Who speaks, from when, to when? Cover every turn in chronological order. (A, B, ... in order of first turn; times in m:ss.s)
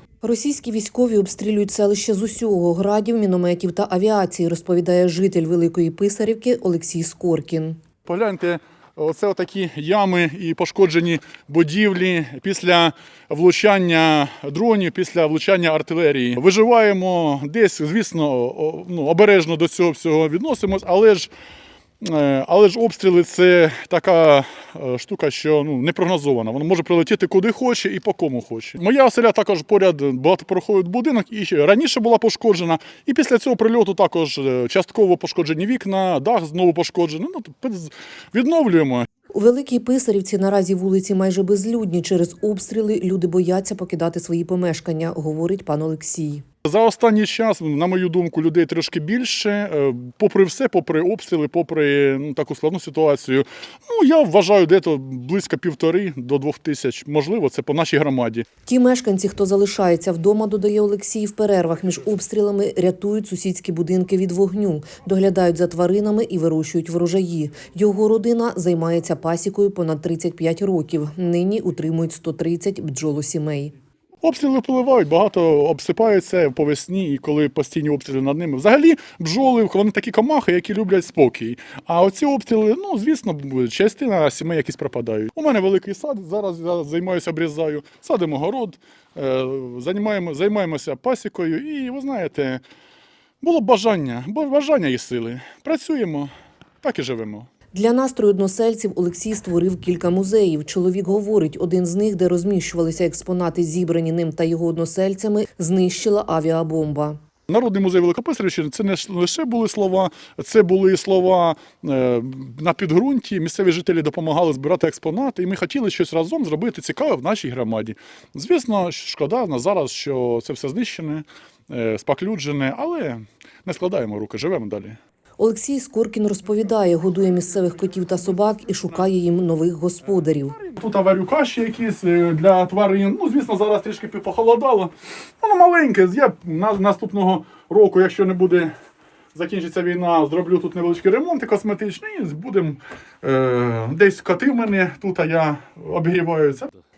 0:00.2-0:07.8 A
0:08.0-0:21.3 B
0:22.0-0:39.1 B
0:39.3-0:46.4 A
0:46.6-0:58.4 B
0:58.7-1:13.7 A
1:14.2-1:32.6 B
1:33.4-1:36.3 B
1:36.8-1:37.5 B
1:37.7-1:47.2 A
1:47.5-2:05.0 B
2:05.4-2:10.5 A
2:10.5-2:18.7 B
2:19.3-2:26.7 B